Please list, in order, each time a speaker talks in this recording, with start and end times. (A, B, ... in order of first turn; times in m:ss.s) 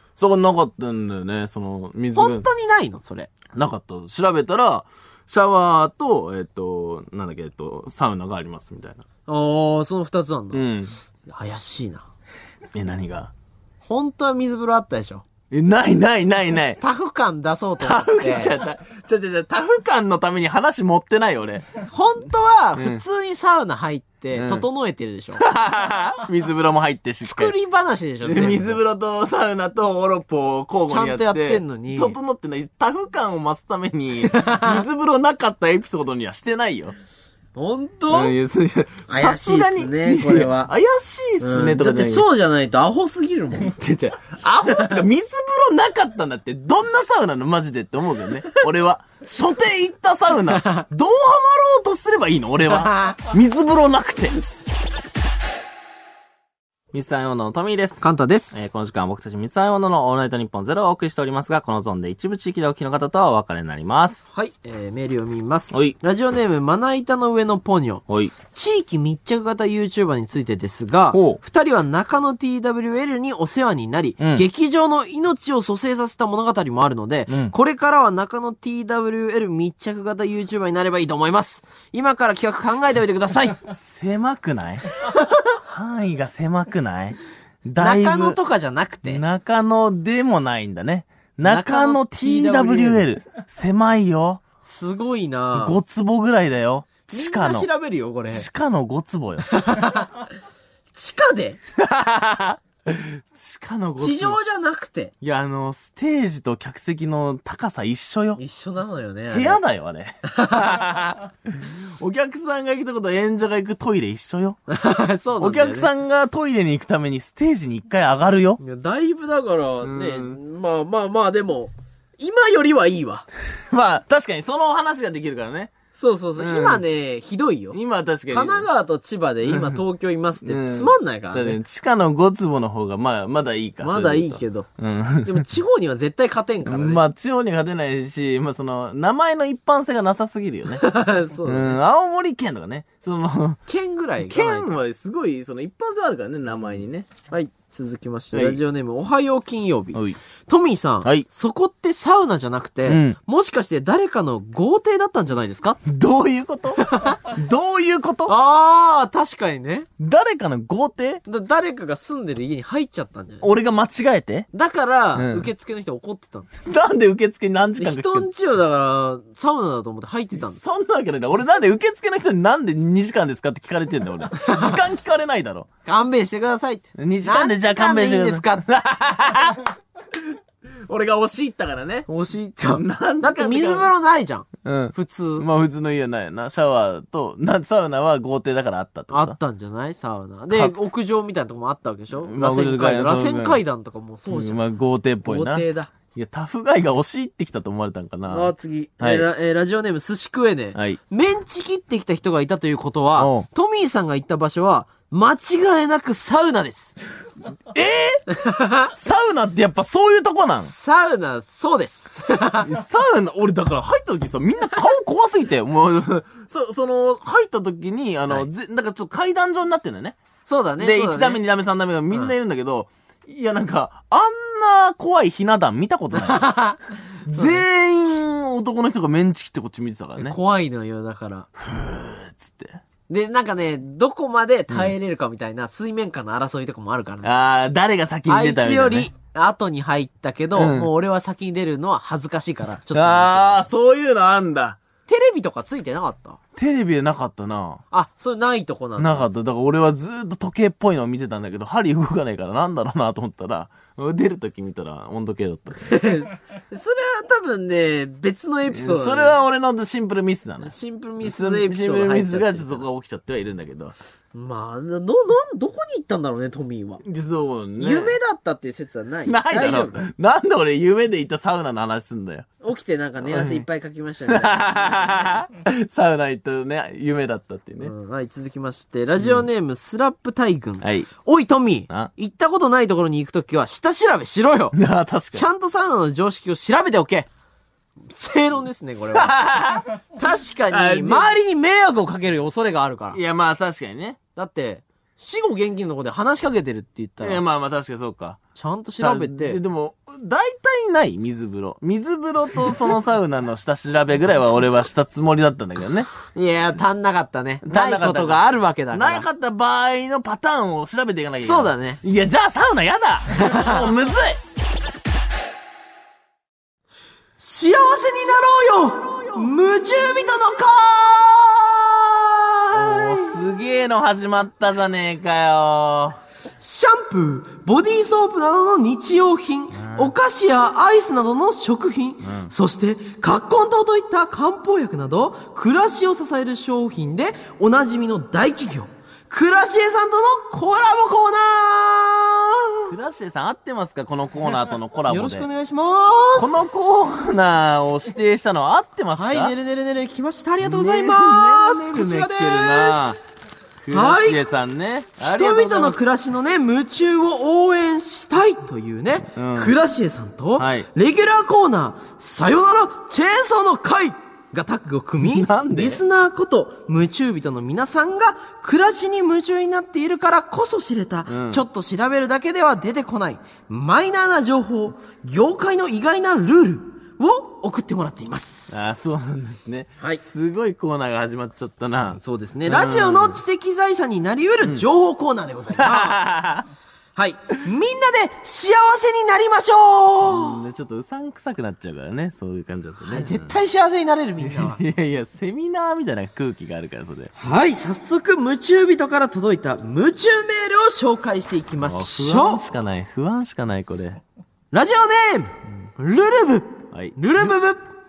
0:00.2-0:02.5 A
0:02.2-0:03.3 B
0:03.5-0:09.0 A
0:09.3-0:10.6 B
0:10.5-0:10.9 A
0:11.3-0:12.0 B
0:12.7-0:13.3 A
0:13.8-0:15.2 B
0:15.5-0:16.8 A
0:16.8-0:18.6 B
0:17.8-0:21.7 A
0:21.9-0:25.4 B
0:22.8-0:23.0 A
0:24.3-0:24.6 A
0:25.4-0:27.5 A
0:27.2-0:28.8 B
0:28.2-0:36.9 A
0:30.9-0:32.2 B
0:34.2-0:34.9 B
0:37.6-0:38.3 B
0:38.1-0:42.3 A
0:39.1-0:40.7 B
0:41.4-0:43.8 B
0:43.6-0:54.4 A
0:52.7-0:53.1 B
0:56.9-1:04.3 A
0:58.0-0:58.7 B
1:04.3-1:23.6 B
1:08.1-1:08.3 A
1:11.1-1:11.4 A
1:14.2-1:14.4 A
1:17.3-1:17.5 A
1:23.7-1:25.0 A
1:25.6-1:28.4 A
1:27.8-1:29.2 B
1:29.1-1:34.4 A
1:31.4-1:33.1 B
1:34.6-1:35.8 B
1:35.6-1:37.7 A
1:37.1-1:38.5 B
1:38.3-1:39.5 A
1:39.5-1:40.3 B
1:40.9-1:41.6 B
1:41.8-1:44.4 A
1:44.0-1:45.1 B
1:45.2-1:48.4 A
1:48.4-1:49.6 B
1:49.3-1:54.6 A
1:50.3-1:50.8 B
1:54.7-1:55.9 B
1:55.4-1:58.6 A
1:58.6-2:03.3 B
1:59.8-2:00.4 A
2:03.6-2:05.7 A
2:05.9-2:07.8 B
2:06.4-2:06.8 A
2:07.7-2:08.7 A
2:08.3-2:11.6 B
2:09.5-2:09.8 A
2:10.4-2:15.5 A
2:13.8-2:14.7 B
2:15.2-2:17.0 B
2:16.6-2:20.9 A
2:20.8-2:21.8 B
2:21.4-2:23.6 A
2:23.7-2:24.7 B
2:24.2-2:27.1 A
2:27.3-2:35.8 B
2:28.3-2:28.6 A
2:32.9-2:33.2 A
2:35.8-2:38.3 A
2:36.8-2:37.2 B
2:38.3-2:39.9 B
2:40.0-2:41.2 A
2:41.3-2:43.4 B
2:43.4-2:44.5 A
2:44.5-2:46.5 B
2:45.2-2:45.5 A
2:46.6-2:48.3 A
2:47.8-2:50.6 B
2:50.4-2:55.7 A
2:54.4-2:54.8 B
2:55.9-2:58.6 B
2:57.0-2:59.7 A
3:00.4-3:02.1 A
3:02.1-3:05.5 B
3:02.7-3:03.9 A
3:04.6-3:09.4 A
3:09.1-3:14.6 B
3:12.2-3:13.6 A
3:14.3-3:19.3 A
3:15.2-3:15.9 B
3:18.3-3:27.0 B
3:23.2-3:23.5 A
3:27.7-3:28.3 A
3:28.3-3:28.9 B
3:28.9-3:30.7 A
3:30.7-3:32.7 B
3:32.6-3:40.2 A
3:40.5-3:41.4 B
3:40.8-3:46.5 A
3:46.1-3:46.8 B
3:47.2-3:50.4 A
3:47.3-3:47.6 B
3:50.2-3:51.5 B
3:51.6-3:52.8 A
3:53.1-3:57.3 B
3:57.2-3:59.1 A
3:58.3-4:03.7 B
4:00.6-4:00.9 A
4:02.9-4:04.8 A
4:05.1-4:06.4 B
4:06.6-4:07.8 A
4:07.9-4:09.3 B
4:09.0-4:16.0 A
4:15.8-4:19.4 B
4:18.7-4:24.0 A
4:20.6-4:22.9 B
4:24.3-4:27.0 B
4:27.0-4:28.1 A
4:27.8-4:30.1 B
4:29.3-4:32.5 A
4:32.6-4:35.4 B
4:33.3-4:33.6 A
4:34.3-4:37.9 A
4:37.8-4:44.8 B
4:40.8-4:41.1 A
4:44.7-4:45.4 A
4:45.3-4:47.3 B
4:48.0-4:49.3 B
4:49.1-4:50.0 A
4:50.2-4:53.2 B
4:50.7-4:51.3 A
4:53.1-4:54.2 A
4:54.4-4:57.4 B
4:57.2-4:58.4 A
4:58.6-4:59.6 B
4:59.0-5:06.1 A
5:06.3-5:09.3 B
5:07.6-5:14.4 A
5:11.4-5:12.0 B
5:13.4-5:13.9 B
5:17.4-5:23.4 B
5:22.7-5:26.2 A
5:26.6-5:42.9 B
5:29.8-5:30.1 A
5:32.2-5:32.5 A
5:42.9-5:45.5 A
5:45.1-5:46.7 B
5:46.4-5:49.5 A
5:49.2-5:53.4 B
5:50.6-5:53.2 A
5:53.8-5:56.0 A
5:53.9-5:54.4 B
5:55.2-6:19.1 B
5:59.4-5:59.8 A
6:00.6-6:00.9 A
6:05.2-6:06.0 A
6:11.3-6:11.6 A
6:18.7-6:23.4 A
6:22.2-6:26.4 B
6:25.7-6:26.7 A
6:27.2-6:30.6 B
6:30.2-6:33.6 A
6:33.0-6:34.8 B
6:34.4-6:37.3 A
6:37.4-6:42.6 B
6:41.8-6:44.2 A
6:44.7-6:47.8 B
6:46.9-6:47.2 A